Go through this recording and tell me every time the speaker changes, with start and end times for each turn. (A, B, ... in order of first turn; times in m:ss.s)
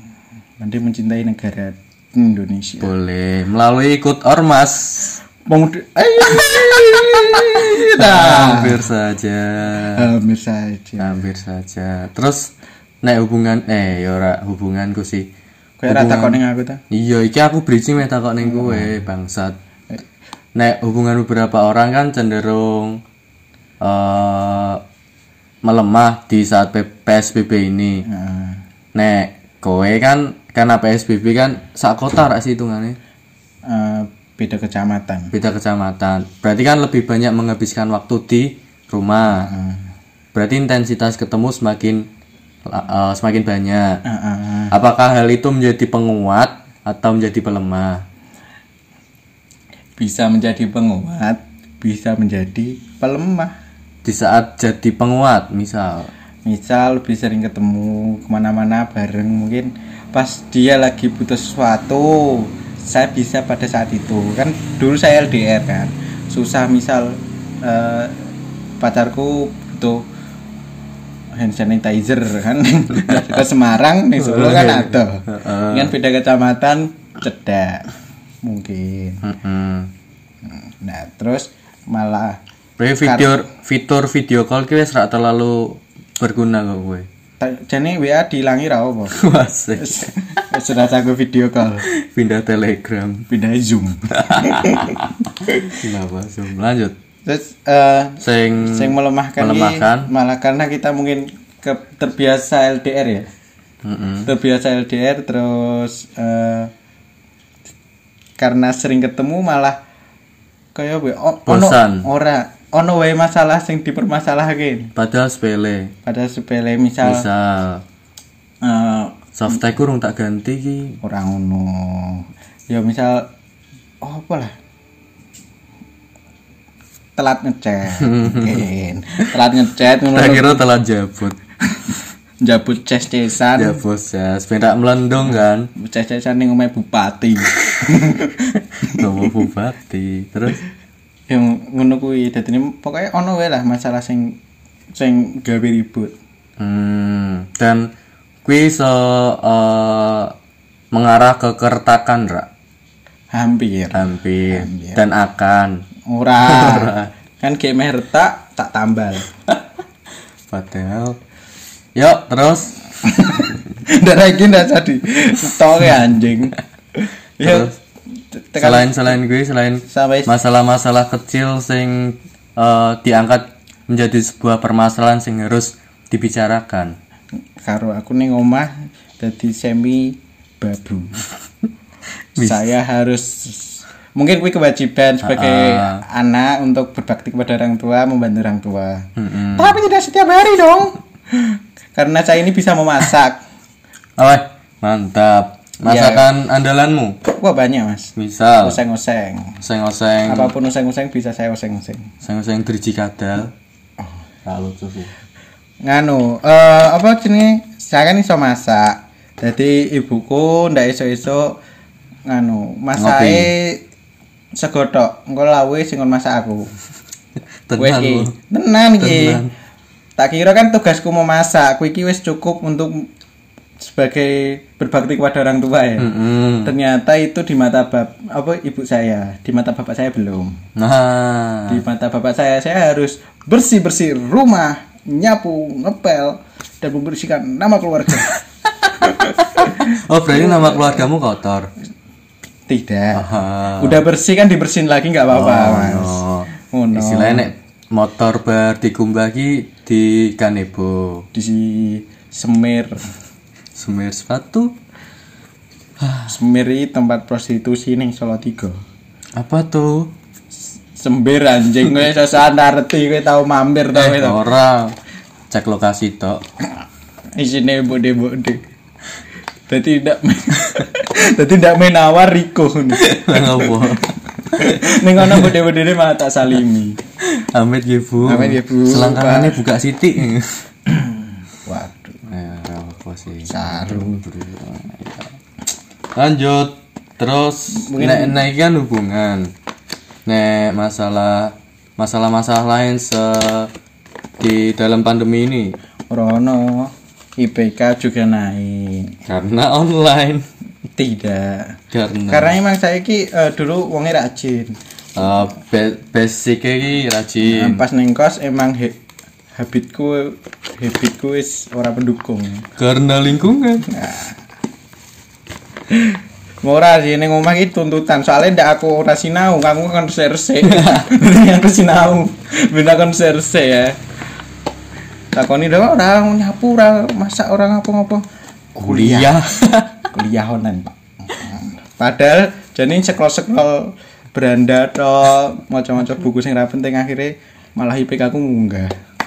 0:00.6-0:02.9 A
0:02.8-0:05.2 B
0:05.5-0:08.9 A
0:06.4-0:10.1 B
0:09.9-0:11.2 A
0:11.0-0:12.5 B
0:13.0-0:15.3 B
0:15.8-0:16.8 A
0:15.9-0:19.6 B
0:18.6-0:18.9 A
0:20.6-0:23.0 B
0:23.8-0:24.8 B
0:25.6-0:28.0 B
0:28.0-0:28.6 A
0:28.9-0:33.0 B
0:33.6-0:35.3 A
0:35.3-0:39.5 B
0:39.3-0:39.8 A
0:40.3-0:42.1 B
0:42.6-0:44.0 B
0:44.0-0:44.7 A
0:44.7-0:48.0 B
0:50.0-0:53.5 A
0:54.0-0:56.1 B
0:56.4-1:10.0 A
1:11.4-1:17.9 A
1:14.2-1:15.9 B
1:18.4-1:19.2 A
1:19.2-1:19.9 B
1:20.4-1:22.4 A
1:22.8-1:27.1 B
1:23.0-1:23.4 A
1:27.4-1:29.2 A
1:29.1-1:30.1 B
1:29.8-1:31.8 A
1:31.8-1:33.3 B
1:33.3-1:35.0 A
1:34.2-1:36.9 B
1:37.2-1:43.3 A
1:38.2-1:40.1 B
1:43.8-1:44.3 B
1:44.2-1:46.7 A
1:48.4-1:49.8 A
1:50.7-1:54.9 A
1:51.4-1:52.1 B
1:54.9-1:55.9 B
1:56.0-1:57.3 A
1:57.0-1:57.8 B
1:58.6-1:59.2 A
1:59.3-2:01.0 B
2:01.0-2:03.3 A
2:04.0-2:04.5 A
2:07.2-2:10.7 A
2:07.9-2:08.6 B
2:10.1-2:11.4 B
2:11.7-2:13.8 A
2:13.5-2:15.7 B
2:15.8-2:19.3 A
2:18.8-2:20.6 B
2:21.3-2:24.4 A
2:24.9-2:26.1 A
2:26.6-2:27.9 B
2:28.4-2:30.3 B
2:30.9-2:32.5 B
2:33.3-2:35.0 A
2:33.9-2:35.8 B
2:36.1-2:39.3 A
2:36.4-2:37.1 B
2:40.5-2:41.2 B
2:41.9-2:43.5 B
2:43.0-2:47.7 A
2:47.4-2:47.8 B
2:48.4-2:49.1 A
2:48.6-2:56.9 B
2:49.8-2:50.3 A
2:57.6-3:01.3 A
3:02.4-3:02.7 B
3:02.4-3:13.4 A
3:05.2-3:06.0 B
3:09.2-3:09.8 B
3:14.2-3:17.2 B
3:15.8-3:16.3 A
3:17.3-3:19.6 A
3:18.2-3:18.8 B
3:19.6-3:20.5 B
3:20.2-3:22.1 A
3:22.2-3:23.5 B
3:24.4-3:25.1 B
3:25.8-3:31.6 A
3:32.3-3:33.8 A
3:33.0-3:33.5 B
3:34.6-3:36.7 A
3:37.7-3:38.3 B
3:37.8-3:39.4 A
3:39.0-3:39.5 B
3:40.2-3:43.1 A
3:43.8-3:46.1 A
3:46.0-3:46.7 B
3:46.6-3:50.6 A
3:50.8-3:51.8 B
3:51.7-3:58.4 A
3:59.0-4:01.1 A
3:59.5-4:01.7 B
4:02.7-4:07.5 A
4:03.1-4:04.0 B
4:05.3-4:11.3 B
4:11.3-4:13.1 A
4:13.8-4:14.7 B
4:16.0-4:16.3 B
4:16.3-4:18.8 A
4:19.4-4:20.1 B
4:20.9-4:24.4 A
4:23.9-4:25.0 B
4:25.5-4:26.4 B
4:27.4-4:28.6 A
4:29.7-4:37.0 A
4:32.9-4:35.5 B
4:37.2-4:40.6 B
4:38.2-4:39.6 A
4:40.9-4:42.2 A
4:42.2-4:45.4 B
4:43.4-4:44.2 A
4:46.2-4:49.5 B
4:47.7-4:48.4 A
4:50.2-4:53.7 B
4:54.4-4:55.8 B
4:56.1-4:59.2 A
4:59.2-5:00.4 B
5:01.0-5:01.8 A
5:01.9-5:02.5 B
5:02.3-5:04.8 A
5:05.2-5:07.8 B
5:07.4-5:09.0 A
5:09.5-5:12.7 A
5:12.8-5:13.9 B
5:13.9-5:14.4 A
5:16.0-5:24.0 A
5:20.6-5:21.0 B
5:25.3-5:28.2 A
5:28.8-5:29.4 A
5:28.8-5:30.1 B
5:30.1-5:38.9 A